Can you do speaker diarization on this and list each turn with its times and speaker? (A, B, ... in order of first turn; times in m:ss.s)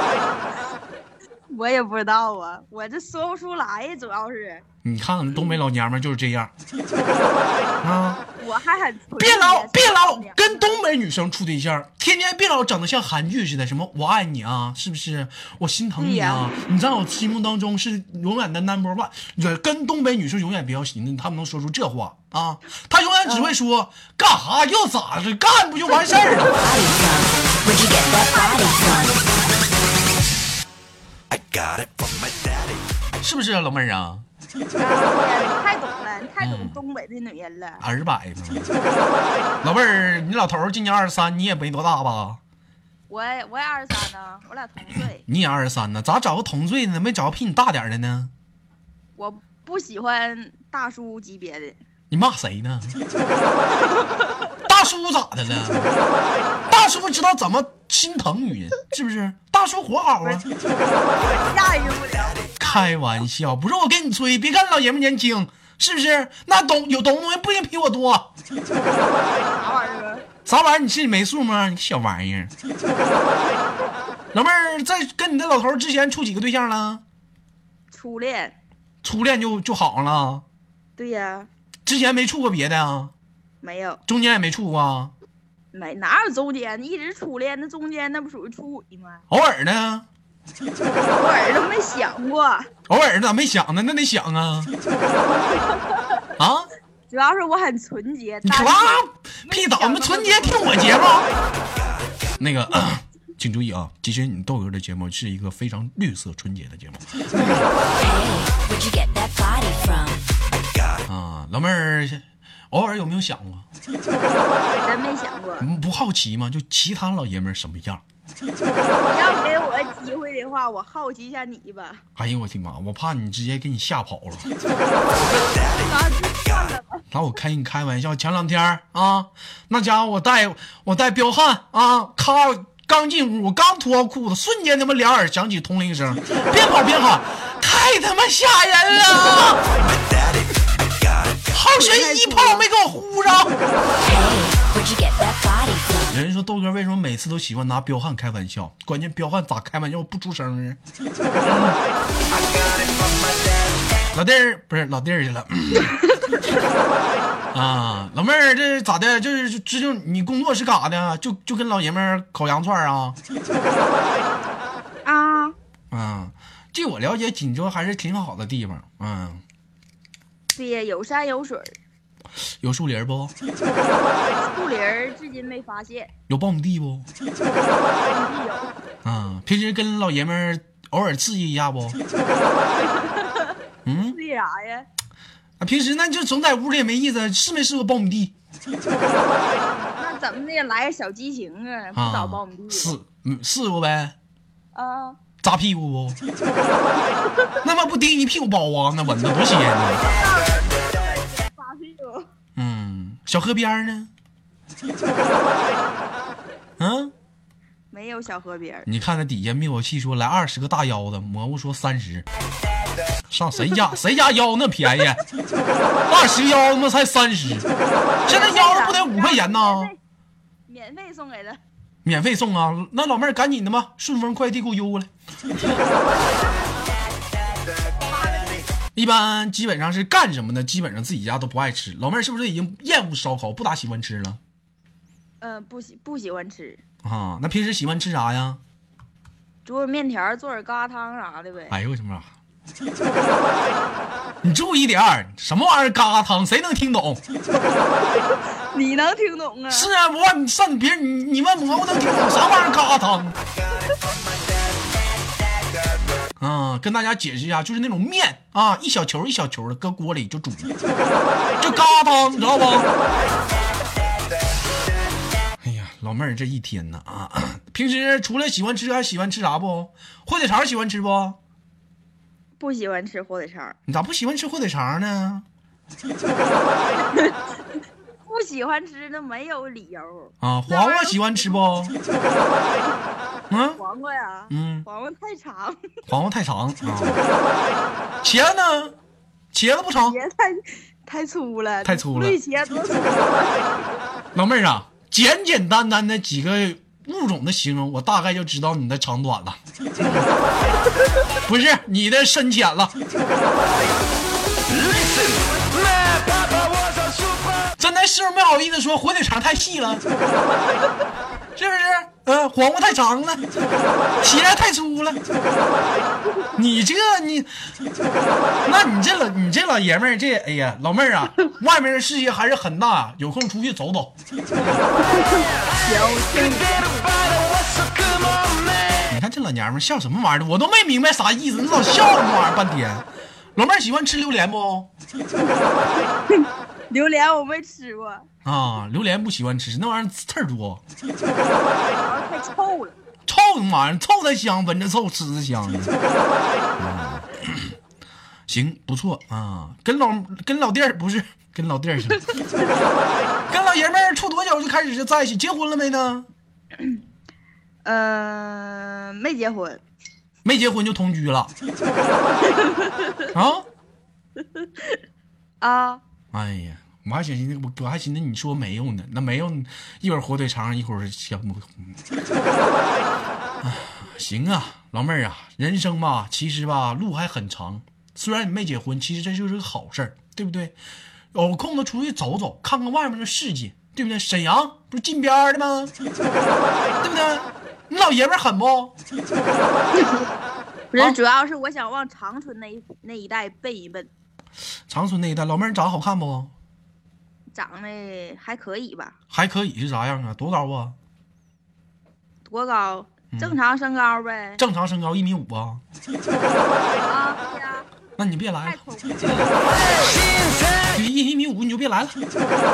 0:01.5-0:04.6 A
0:04.8-0:06.5 B
0:07.8-0:08.2 B
0:08.4-0:10.8 A
0:09.2-0:26.6 B
0:16.0-0:16.5 A
0:23.2-0:23.5 A
0:26.5-0:29.3 C
0:28.3-0:29.2 A
0:31.3-0:32.9 D
0:33.2-0:34.2 B
0:34.8-0:37.8 A
0:36.4-0:36.8 B
0:37.8-0:38.7 B
0:39.6-0:42.4 B
0:43.1-0:45.2 A
0:45.2-0:48.3 B
0:49.2-0:51.8 A
0:52.1-0:53.0 B
0:53.8-0:54.3 A
0:54.6-0:55.9 B
0:56.7-1:00.5 B
1:01.2-1:02.9 A
1:02.6-1:08.3 B
1:09.5-1:10.2 A
1:10.4-1:12.5 B
1:14.3-1:17.0 B
1:17.9-1:18.5 A
1:19.0-1:20.4 B
1:21.0-1:21.5 A
1:21.8-1:23.1 B
1:23.6-1:24.0 A
1:24.1-1:25.1 B
1:25.7-1:29.2 A
1:29.3-1:30.1 B
1:31.1-1:32.7 A
1:32.9-1:34.7 B
1:35.5-1:36.0 A
1:36.4-1:36.7 B
1:37.1-1:40.6 A
1:38.4-1:41.3 B
1:42.4-1:47.6 B
1:47.9-1:50.2 C
1:51.1-1:53.6 B
1:54.8-1:55.7 A
1:55.6-1:58.0 B
1:59.0-2:02.0 A
2:02.2-2:04.5 B
2:05.2-2:07.0 A
2:07.1-2:19.6 B
2:19.8-2:21.4 D
2:21.5-2:23.5 B
2:21.7-2:22.6 A
2:24.0-2:26.2 C
2:26.1-2:30.8 B
2:31.4-2:31.8 B
2:32.3-2:33.7 D
2:34.1-2:36.0 B
2:37.5-2:43.2 B
2:45.0-2:45.5 A
2:45.9-2:49.4 B
2:50.5-2:51.7 A
2:52.6-2:53.3 B
2:54.5-2:56.1 A
2:56.3-2:57.1 B
2:58.0-2:58.7 A
2:59.0-3:02.0 B
3:02.8-3:04.9 A
3:03.8-3:04.2 B
3:05.6-3:08.3 B
3:09.8-3:12.9 A
3:12.0-3:14.2 B
3:14.7-3:15.2 A
3:15.4-3:16.2 B
3:17.6-3:20.0 B
3:20.0-3:22.3 A
3:22.6-3:24.1 B
3:26.8-3:27.1 B
3:27.9-3:28.9 A
3:28.9-3:32.2 B
3:33.3-3:35.2 B
3:33.6-3:33.9 A
3:36.1-3:37.7 B
3:38.2-3:39.9 B
3:38.2-3:40.0 A
3:40.7-3:41.6 A
3:42.0-3:45.1 B
3:48.0-3:48.7 A
3:48.9-3:54.4 B
3:55.4-3:56.8 A
3:57.0-3:58.6 B
3:59.6-4:01.8 A
4:01.7-4:02.3 B
4:04.4-4:07.2 B
4:08.7-4:09.9 A
4:09.7-4:13.4 B
4:16.4-4:20.7 B
4:21.6-4:22.9 B
4:25.6-4:31.4 B
4:32.6-4:33.8 A
4:33.9-4:35.4 B
4:37.0-4:37.4 A
4:38.2-4:41.6 A
4:40.4-4:42.0 B
4:43.5-4:43.8 B
4:43.8-4:45.8 A
4:44.5-4:44.9 B
4:46.1-4:47.2 B
4:48.2-4:49.0 B
4:49.5-4:50.2 B
4:50.0-4:53.5 A
4:51.8-4:52.4 B
4:54.3-5:00.3 B
5:01.5-5:03.0 B
5:05.6-5:06.7 A
5:07.8-5:10.0 B
5:11.6-5:13.4 B
5:14.2-5:15.2 B
5:16.6-5:17.5 B
5:18.6-5:24.2 B
5:25.0-5:27.2 A
5:29.1-5:34.9 B
5:36.3-5:38.2 A
5:38.4-5:40.8 B
5:42.0-5:42.9 A
5:43.2-5:45.9 B
5:46.8-5:47.7 B
5:48.5-5:52.3 B
5:53.5-5:56.3 B
5:57.8-5:59.8 A
6:00.4-6:01.5 B
6:02.4-6:03.3 A
6:03.3-6:03.7 B
6:04.6-6:05.0 A
6:05.6-6:06.0 A
6:06.3-6:12.0 B
6:13.6-6:20.8 B
6:21.3-6:25.9 B
6:27.0-6:29.0 B
6:30.0-6:30.2 A
6:30.9-6:34.1 A
6:34.9-6:36.5 B
6:37.5-6:39.1 A
6:39.3-6:41.0 B
6:42.4-6:44.6 A
6:43.3-6:43.6 B
6:44.6-6:45.8 B
6:47.1-6:47.9 A
6:48.2-6:49.4 B
6:48.6-6:50.3 A
6:50.9-6:52.2 B